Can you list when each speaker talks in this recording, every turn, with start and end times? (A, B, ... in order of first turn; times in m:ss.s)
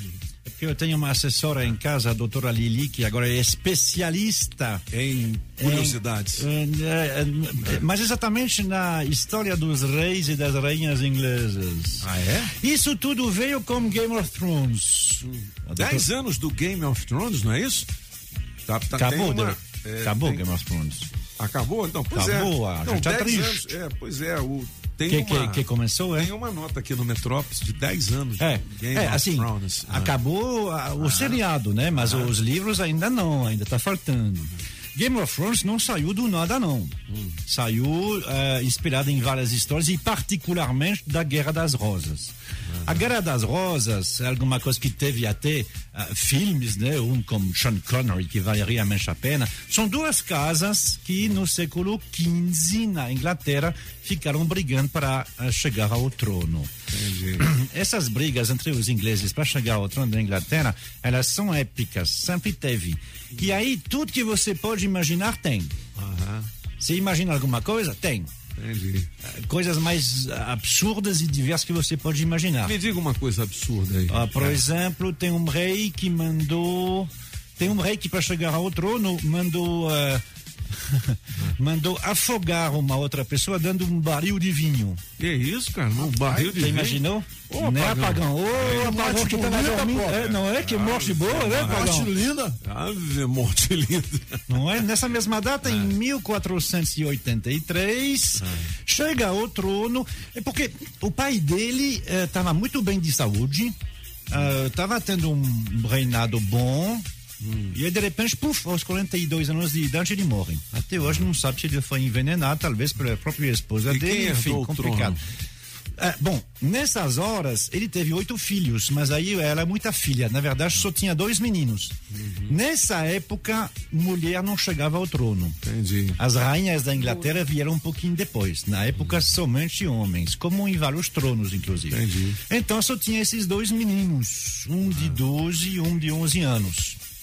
0:00.4-0:04.8 A
0:04.9-0:06.5 B
0:05.6-0:16.1 A
0:12.0-0:12.5 B
0:15.2-0:17.9 B
0:18.6-0:20.4 B
0:18.9-0:21.1 A
0:21.4-0:30.2 B
0:22.1-0:23.8 A
0:25.1-0:26.3 A
0:28.4-0:56.7 A
0:31.0-0:32.3 B
0:56.9-0:57.5 B
0:57.4-1:05.7 A
1:06.0-1:06.5 B
1:06.8-1:08.3 A
1:08.5-1:09.1 B
1:09.2-1:12.8 A
1:12.6-1:14.6 B
1:14.1-1:25.0 A
1:25.2-1:28.9 B
1:26.2-1:32.1 A
1:28.6-1:30.3 C
1:30.1-1:32.0 B
1:31.5-1:32.6 C
1:32.6-1:34.6 B
1:34.5-1:43.8 A
1:38.4-1:38.7 B
1:44.3-1:47.0 A
1:47.4-1:47.8 B
1:47.7-1:55.2 A
1:53.9-1:55.2 B
1:56.0-2:01.9 A
2:02.1-2:02.6 B
2:02.5-2:05.6 A
2:05.6-2:06.2 B
2:06.2-2:17.0 A
2:11.9-2:12.4 B